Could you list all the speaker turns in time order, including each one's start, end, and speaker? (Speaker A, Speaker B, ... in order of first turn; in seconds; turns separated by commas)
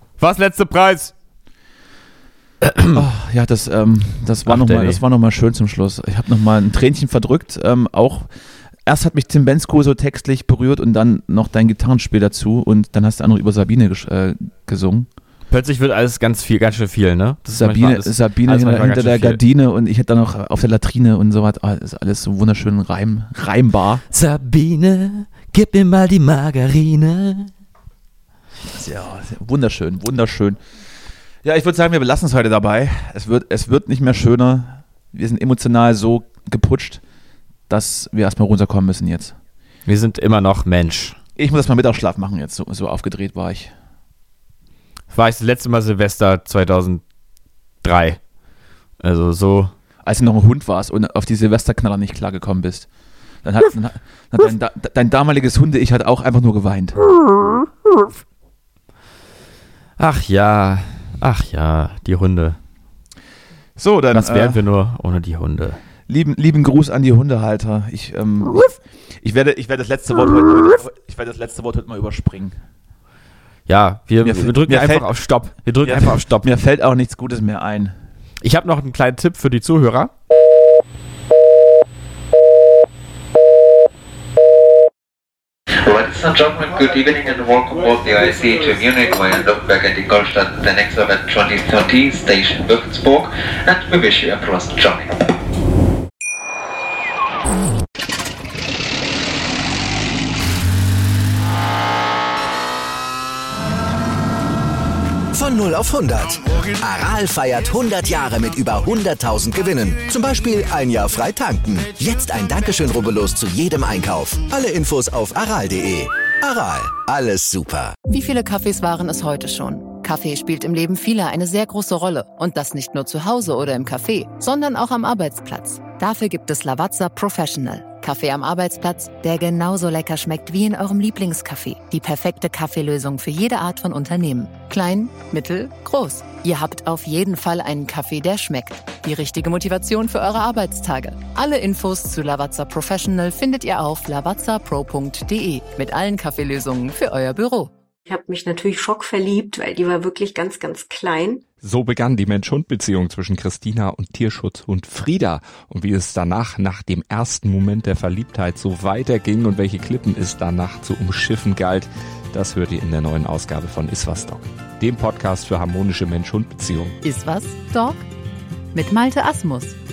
Speaker A: 0.2-1.1, Speaker A: 2.6-3.0, Speaker B: 2.9-8.3, Speaker A: 4.5-5.0, Speaker B: 8.9-15.1, Speaker A: 15.5-19.4, Speaker B: 17.5-24.0, Speaker A: 24.1-27.5, Speaker B: 28.6-30.6, Speaker B: 31.4-37.0, Speaker B: 37.7-39.4, Speaker A: 39.9-41.2, Speaker B: 41.4-43.7, Speaker A: 45.1-47.0, Speaker A: 47.8-48.2, Speaker A: 49.0-49.7, Speaker B: 50.0-52.9, Speaker B: 53.4-57.0, Speaker A: 57.4-58.1, Speaker A: 60.0-62.6, Speaker B: 63.8-64.6, Speaker A: 64.1-65.8, Speaker B: 66.1-72.6, Speaker A: 73.7-76.5, Speaker B: 74.2-75.1, Speaker B: 75.8-78.0, Speaker A: 78.4-80.1, Speaker C: 85.7-95.2, Speaker D: 105.3-118.0, Speaker E: 118.1-147.7, Speaker F: 148.1-151.4, Speaker G: 151.6-167.0, Speaker E: 167.0-168.1, Speaker E: 168.7-169.8